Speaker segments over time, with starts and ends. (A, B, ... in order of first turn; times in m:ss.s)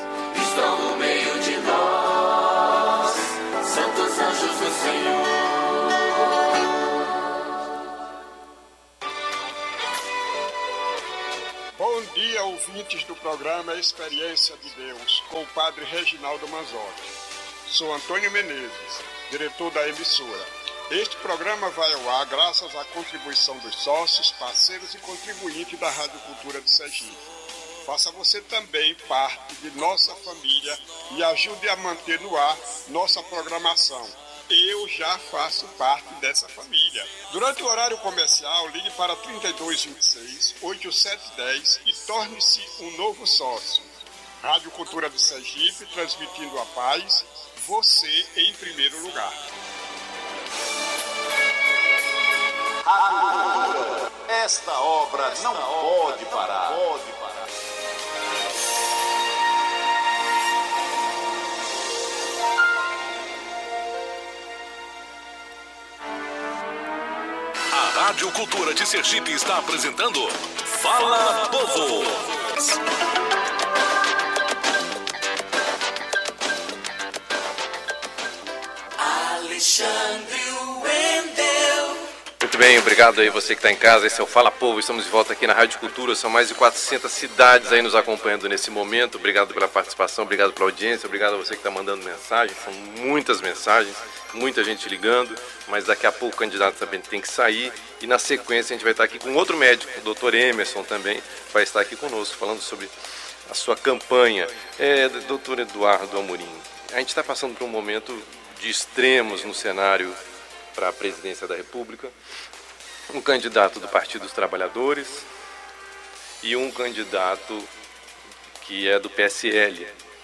0:00.3-0:02.7 A
0:03.6-0:05.5 A
0:11.8-0:17.1 B
0:17.7-0:27.2 B
0:27.9-0:43.9 B
0:44.4-0:49.4 B
0:52.9-0:57.3 C
1:07.7-1:12.6 D
1:19.0-1:22.1 A
1:22.4-1:42.9 E
1:43.5-1:50.2 E
1:50.8-1:52.2 E
1:53.1-1:55.3 E
1:56.4-1:57.7 E
1:58.6-1:59.9 E